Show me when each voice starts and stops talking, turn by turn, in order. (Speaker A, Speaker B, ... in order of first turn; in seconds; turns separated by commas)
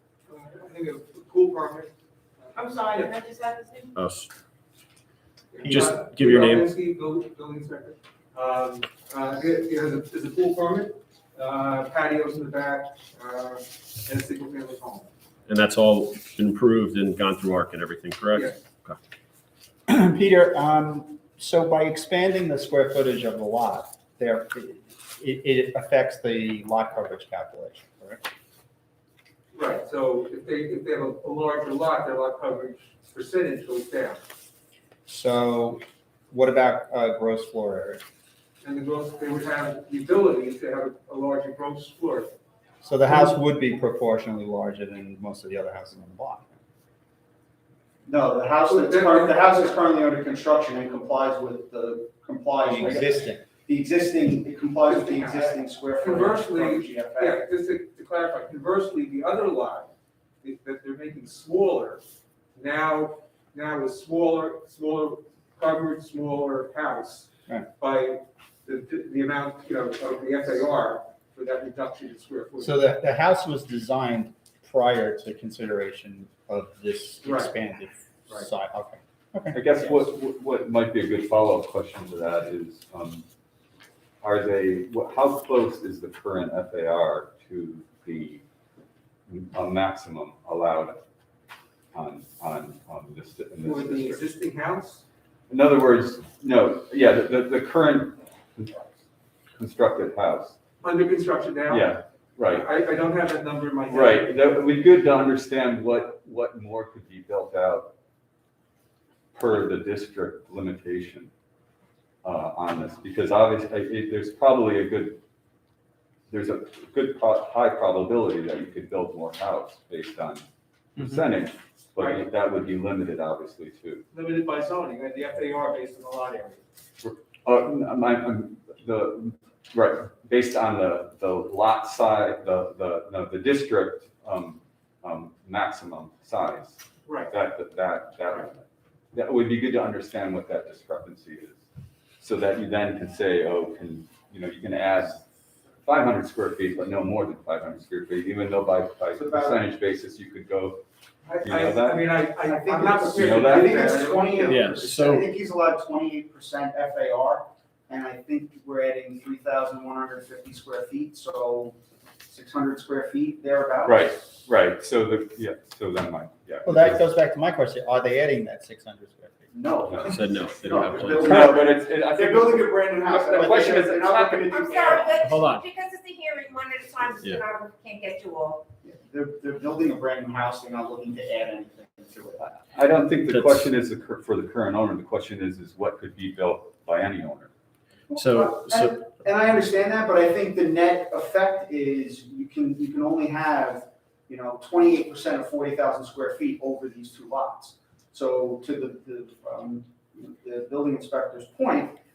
Speaker A: 0.3-1.9, Speaker A: 2.4-3.1, Speaker B: 2.5-3.9, Speaker C: 3.9-4.3, Speaker A: 5.5-15.1, Speaker C: 5.6-6.7, Speaker C: 15.5-19.0, Speaker D: 19.9-28.2, Speaker A: 29.5-34.2, Speaker D: 35.0-38.0, Speaker A: 38.6-42.3, Speaker D: 42.8-46.6, Speaker E: 48.0-57.4, Speaker A: 48.7-49.4, Speaker D: 52.6-53.4, Speaker A: 54.9-62.0, Speaker A: 62.5-72.8, Speaker D: 72.6-79.7, Speaker A: 77.2-77.5, Speaker F: 79.5-83.2, Speaker F: 84.2-88.4, Speaker F: 89.3-91.0, Speaker F: 91.9-94.3, Speaker A: 93.6-95.0, Speaker F: 95.5-98.9, Speaker F: 99.5-100.6, Speaker A: 100.8-104.5, Speaker F: 101.7-102.7, Speaker F: 103.9-107.9, Speaker F: 109.3-111.3, Speaker F: 112.2-115.2, Speaker F: 116.3-120.4, Speaker F: 121.0-124.0, Speaker A: 122.0-122.2, Speaker A: 124.1-126.6, Speaker F: 127.0-141.6, Speaker A: 137.1-137.4, Speaker F: 142.2-145.2, Speaker F: 145.8-150.8, Speaker E: 149.1-149.6, Speaker A: 151.3-154.7, Speaker F: 151.4-152.2, Speaker E: 152.4-164.4, Speaker F: 153.2-154.1, Speaker C: 154.4-155.3, Speaker F: 163.8-167.0, Speaker D: 166.6-169.6, Speaker E: 169.5-175.2, Speaker C: 170.0-171.6, Speaker F: 171.2-174.6, Speaker B: 174.5-178.6, Speaker C: 175.2-175.6, Speaker E: 178.8-182.6, Speaker F: 182.7-187.5, Speaker C: 183.3-183.7, Speaker E: 188.1-201.9, Speaker C: 188.1-189.0